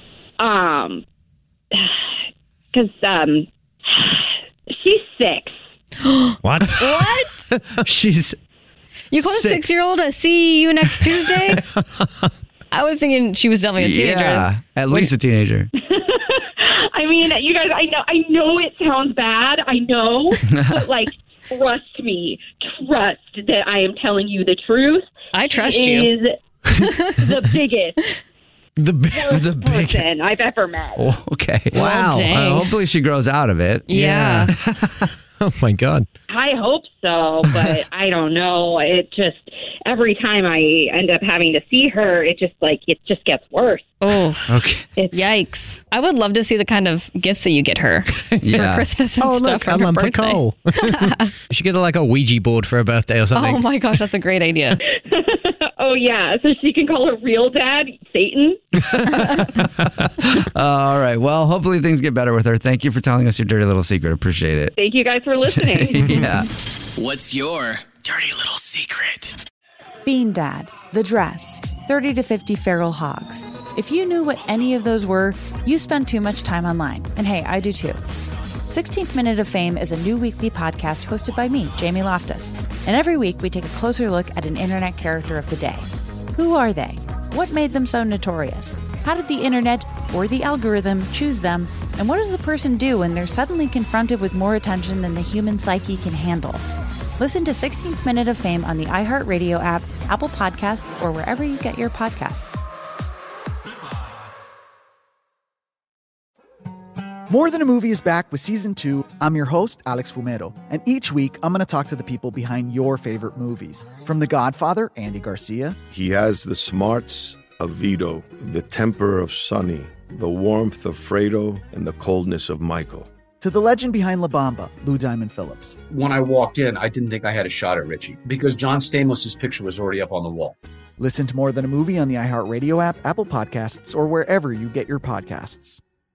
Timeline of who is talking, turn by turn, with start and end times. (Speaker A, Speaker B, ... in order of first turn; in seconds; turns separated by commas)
Speaker A: 0.4-1.0, Speaker A: 1.7-2.0, Speaker A: 2.7-5.5, Speaker B: 6.0-7.4, Speaker C: 6.4-7.8, Speaker D: 7.8-8.4, Speaker B: 9.1-11.6, Speaker D: 9.1-9.8, Speaker C: 11.7-12.0, Speaker B: 12.7-15.1, Speaker D: 13.8-15.7, Speaker A: 15.8-26.4, Speaker D: 20.5-20.8, Speaker B: 25.3-26.1, Speaker B: 26.8-27.2, Speaker A: 27.2-28.1, Speaker C: 28.8-29.4, Speaker A: 29.1-31.1, Speaker D: 29.3-30.2, Speaker D: 31.0-34.0, Speaker C: 31.7-32.4, Speaker B: 31.8-32.8, Speaker B: 33.9-34.5, Speaker C: 33.9-36.1, Speaker D: 34.5-35.1, Speaker A: 36.3-43.9, Speaker B: 44.0-44.6, Speaker D: 44.5-44.9, Speaker A: 45.0-45.3, Speaker B: 45.1-51.3, Speaker D: 48.4-48.9, Speaker C: 49.2-53.7, Speaker B: 53.3-54.8, Speaker A: 54.9-58.7, Speaker D: 58.9-64.7, Speaker A: 64.8-66.3, Speaker D: 65.4-66.5, Speaker E: 67.0-69.3, Speaker F: 70.0-78.0, Speaker F: 78.7-96.6, Speaker F: 97.2-102.6, Speaker G: 107.3-115.8, Speaker H: 115.9-123.1, Speaker G: 123.4-125.8, Speaker I: 125.9-130.5, Speaker G: 131.0-135.8